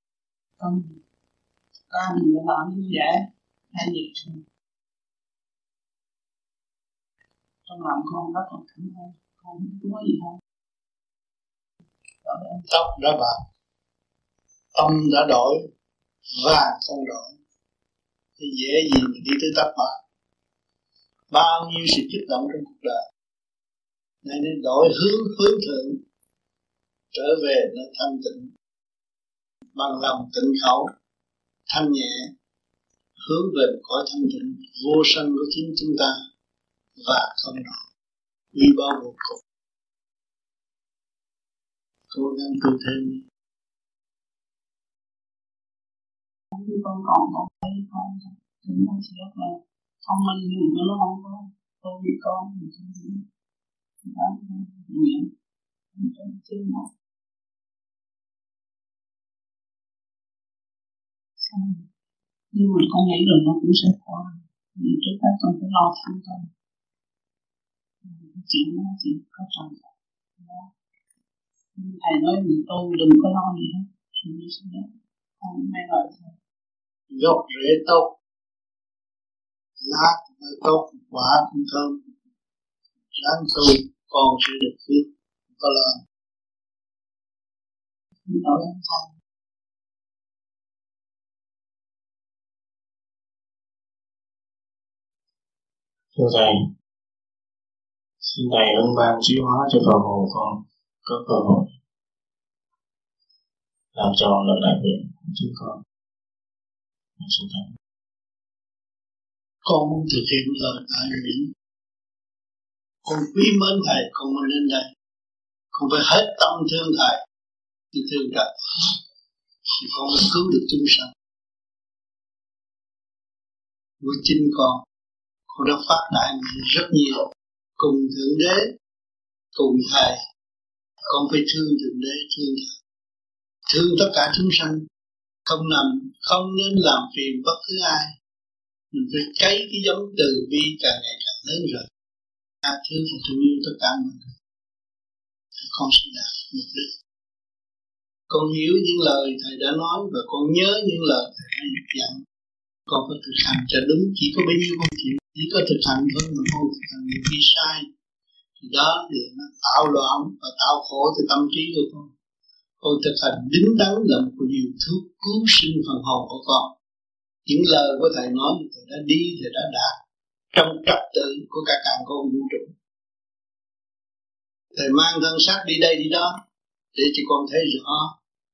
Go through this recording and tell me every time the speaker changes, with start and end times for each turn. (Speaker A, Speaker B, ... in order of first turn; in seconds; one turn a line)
Speaker A: 0.6-0.9
Speaker A: 1.9-4.4
Speaker A: 7.7-10.4
Speaker A: 12.2-12.6
Speaker B: 12.7-13.4
Speaker B: 14.7-15.6
Speaker B: 16.3-17.3
Speaker B: 18.4-19.9
Speaker B: 21.3-23.0
Speaker B: 24.2-26.0
Speaker B: 27.1-28.5
Speaker B: 29.7-30.9
Speaker B: 31.7-32.3
Speaker B: 33.2-36.1
Speaker B: 37.0-37.8
Speaker B: 38.5-39.4
Speaker B: 42.1-43.2
Speaker A: 46.5-53.2
Speaker A: 54.0-55.3
Speaker A: 55.9-56.9
Speaker A: 61.4-61.8
Speaker A: 62.5-66.5
Speaker A: 68.0-70.7
Speaker A: 71.8-74.9
Speaker A: 75.4-76.3
Speaker B: 77.1-78.1
Speaker B: 79.8-82.0
Speaker B: 83.2-86.0
Speaker A: 88.3-89.1
Speaker C: 96.2-96.6
Speaker C: 98.2-101.7
Speaker C: 103.9-105.8
Speaker C: 107.2-107.7
Speaker B: 109.6-111.5
Speaker B: 113.0-114.8
Speaker B: 115.7-117.2
Speaker B: 117.9-118.9
Speaker B: 119.8-121.1
Speaker B: 124.0-124.8
Speaker B: 125.5-127.2
Speaker B: 127.8-128.7
Speaker B: 129.5-130.2
Speaker B: 131.1-132.7
Speaker B: 133.7-134.8
Speaker B: 135.5-138.1
Speaker B: 138.9-141.8
Speaker B: 142.6-144.3
Speaker B: 145.6-146.9
Speaker B: 148.3-152.2
Speaker B: 152.9-157.9
Speaker B: 158.6-162.1
Speaker B: 162.8-166.7
Speaker B: 167.4-169.9
Speaker B: 170.5-172.7
Speaker B: 174.7-176.3
Speaker B: 176.9-178.1